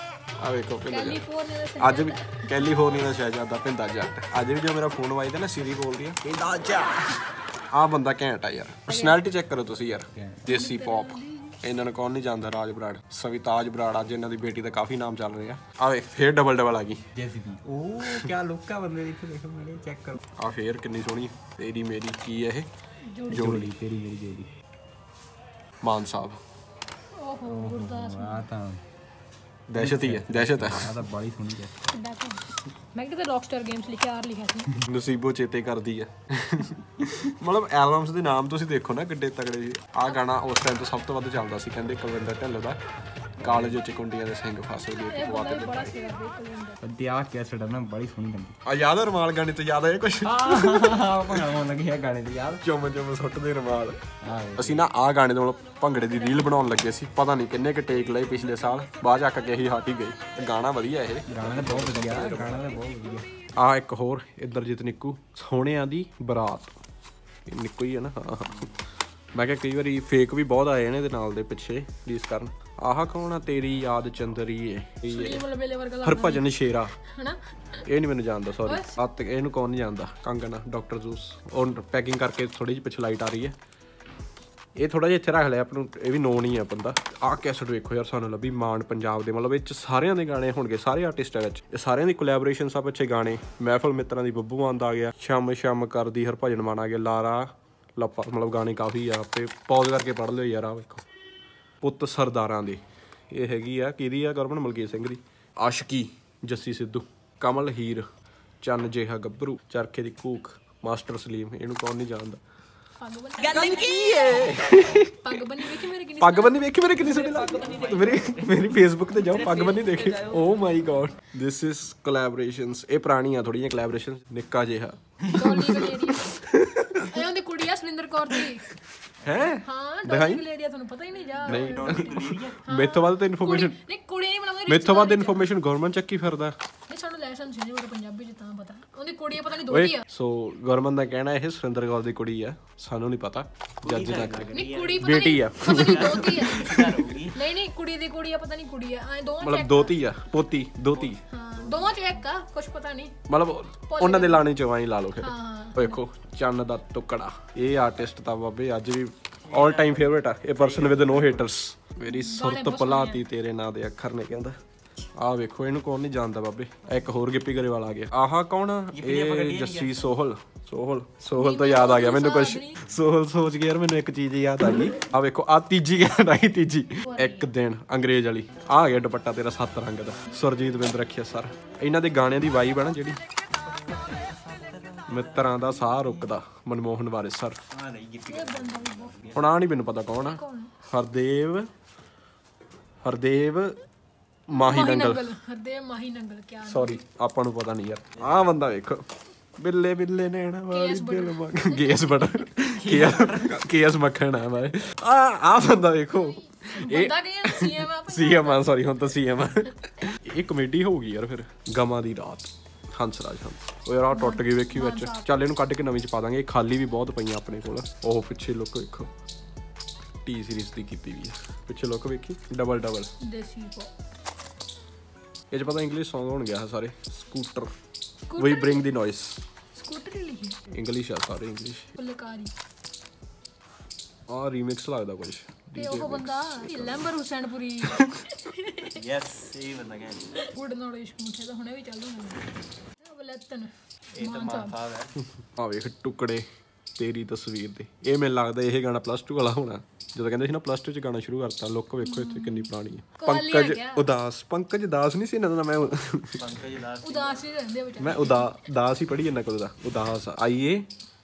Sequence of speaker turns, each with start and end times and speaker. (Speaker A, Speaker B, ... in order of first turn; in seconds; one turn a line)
Speaker A: 0.4-1.2
Speaker B: 0.9-2.5
Speaker A: 1.8-7.2
Speaker A: 7.7-17.0
Speaker B: 8.9-9.2
Speaker C: 10.1-10.4
Speaker B: 10.5-11.6
Speaker C: 17.1-20.2
Speaker A: 20.4-22.7
Speaker B: 23.1-23.5
Speaker A: 23.3-23.7
Speaker C: 23.3-24.5
Speaker A: 25.8-26.4
Speaker B: 27.1-28.5
Speaker C: 27.5-28.8
Speaker A: 29.7-30.9
Speaker C: 29.8-31.8
Speaker B: 31.9-34.8
Speaker A: 34.8-42.8
Speaker C: 43.4-43.8
Speaker A: 43.4-46.0
Speaker B: 45.0-46.8
Speaker C: 46.8-48.5
Speaker A: 48.6-51.4
Speaker C: 50.2-52.6
Speaker A: 52.6-54.0
Speaker C: 54.2-54.8
Speaker A: 54.6-62.6
Speaker B: 56.2-56.5
Speaker C: 61.3-63.3
Speaker A: 63.6-66.7
Speaker A: 67.5-68.7
Speaker A: 69.3-75.4
Speaker B: 75.1-76.5
Speaker A: 76.0-76.9
Speaker B: 77.1-77.8
Speaker A: 77.8-83.5
Speaker B: 78.6-78.9
Speaker A: 84.8-101.0
Speaker A: 101.8-108.0
Speaker A: 108.6-112.4
Speaker B: 113.0-118.0
Speaker A: 113.5-115.4
Speaker A: 116.2-127.2
Speaker C: 117.7-118.2
Speaker C: 119.4-119.7
Speaker B: 125.3-126.3
Speaker B: 127.1-128.7
Speaker A: 129.2-130.4
Speaker B: 129.6-135.5
Speaker C: 131.1-132.6
Speaker A: 131.4-133.8
Speaker A: 134.7-136.5
Speaker B: 136.9-140.0
Speaker A: 139.7-147.1
Speaker C: 143.8-145.1
Speaker B: 144.5-150.0
Speaker C: 145.8-147.4
Speaker A: 149.4-151.2
Speaker C: 150.9-152.2
Speaker B: 151.2-153.1
Speaker A: 153.3-164.5
Speaker B: 153.9-154.5
Speaker B: 155.2-156.0
Speaker C: 159.4-161.4
Speaker B: 162.1-163.2
Speaker A: 165.2-183.2
Speaker C: 168.9-170.1
Speaker B: 171.3-172.8
Speaker B: 177.1-177.5
Speaker C: 183.6-186.3
Speaker A: 185.1-187.6
Speaker C: 187.7-189.5
Speaker B: 188.3-189.3
Speaker A: 189.3-191.7
Speaker B: 190.1-190.7
Speaker A: 193.0-193.8
Speaker A: 194.5-195.2
Speaker B: 194.5-197.0
Speaker A: 196.6-199.0
Speaker A: 199.6-219.1
Speaker B: 200.7-201.9
Speaker C: 202.8-203.6
Speaker B: 206.1-208.7
Speaker B: 214.1-215.3
Speaker A: 220.2-223.1
Speaker B: 223.2-223.9
Speaker A: 225.5-227.7
Speaker B: 228.3-228.9
Speaker A: 228.4-229.4
Speaker B: 229.7-230.6
Speaker A: 230.7-231.9
Speaker B: 231.9-232.5
Speaker A: 234.3-237.1
Speaker B: 235.8-239.0
Speaker C: 238.9-240.2
Speaker B: 240.4-242.4
Speaker B: 243.0-244.8
Speaker C: 244.1-245.1
Speaker A: 245.4-246.4
Speaker A: 247.0-256.4
Speaker B: 252.0-254.1
Speaker C: 256.4-257.5
Speaker B: 257.0-258.5
Speaker A: 258.0-260.9